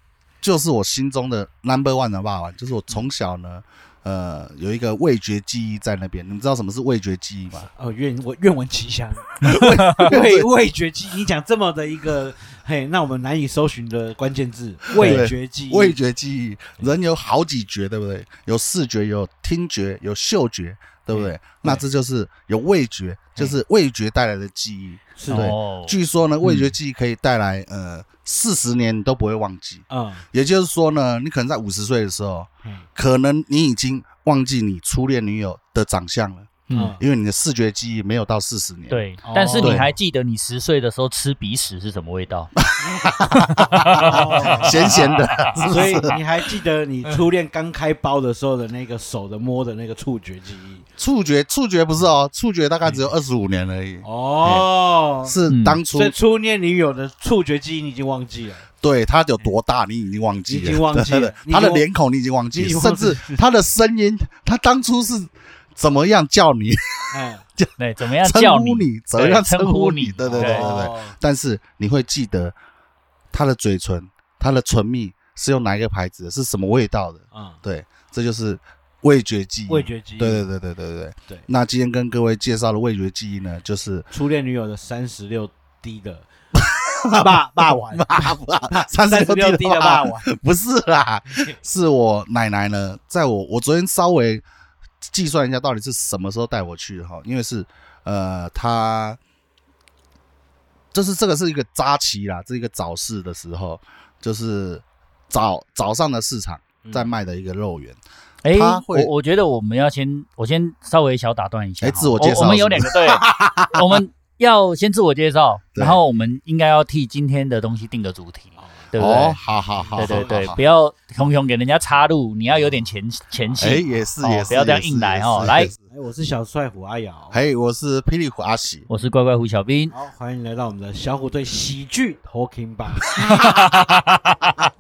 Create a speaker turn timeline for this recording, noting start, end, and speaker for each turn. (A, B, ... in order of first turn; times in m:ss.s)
0:00.4-0:07.7 A
0:07.7-0:16.0 B
0:09.4-0:10.5 A
0:09.6-0:10.1 C
0:14.9-0:39.0 A
0:15.0-0:15.2 C
0:21.1-0:21.8 B
0:25.2-0:25.5 B
0:25.3-0:26.7 C
0:29.9-0:30.2 B
0:36.7-0:37.0 C
0:36.7-0:37.0 B
0:38.9-0:42.5 C
0:39.2-0:39.9 B
0:39.6-0:39.9 A
0:42.6-0:46.1 A
0:43.4-0:46.2 C
0:44.0-0:44.9 B
0:45.7-0:50.8 B
0:51.0-0:54.7 A
0:54.0-0:55.4 B
0:55.2-0:56.1 A
0:55.5-0:55.8 C
0:55.9-0:58.7 B
0:58.8-1:12.5 A
1:00.5-1:01.8 B
1:02.5-1:03.4 B
1:07.1-1:07.4 B
1:07.8-1:10.7 C
1:10.2-1:11.2 B
1:13.3-1:24.1 A
1:17.3-1:17.6 B
1:19.7-1:20.5 B
1:24.1-1:26.3 B
1:26.6-1:34.4 A
1:27.1-1:30.2 B
1:35.0-1:39.2 A
1:40.9-1:49.1 A
1:46.8-1:47.1 B
1:48.4-1:59.4 C
1:51.8-1:54.0 A
1:58.6-1:58.9 B
1:59.0-2:00.6 A
1:59.7-2:00.6 B
2:00.0-2:05.7 C
2:03.6-2:05.8 A
2:05.9-2:07.4 B
2:07.3-2:08.9 A
2:08.9-2:09.9 C
2:09.9-2:13.2 B
2:13.1-2:13.8 A
2:13.4-2:14.6 C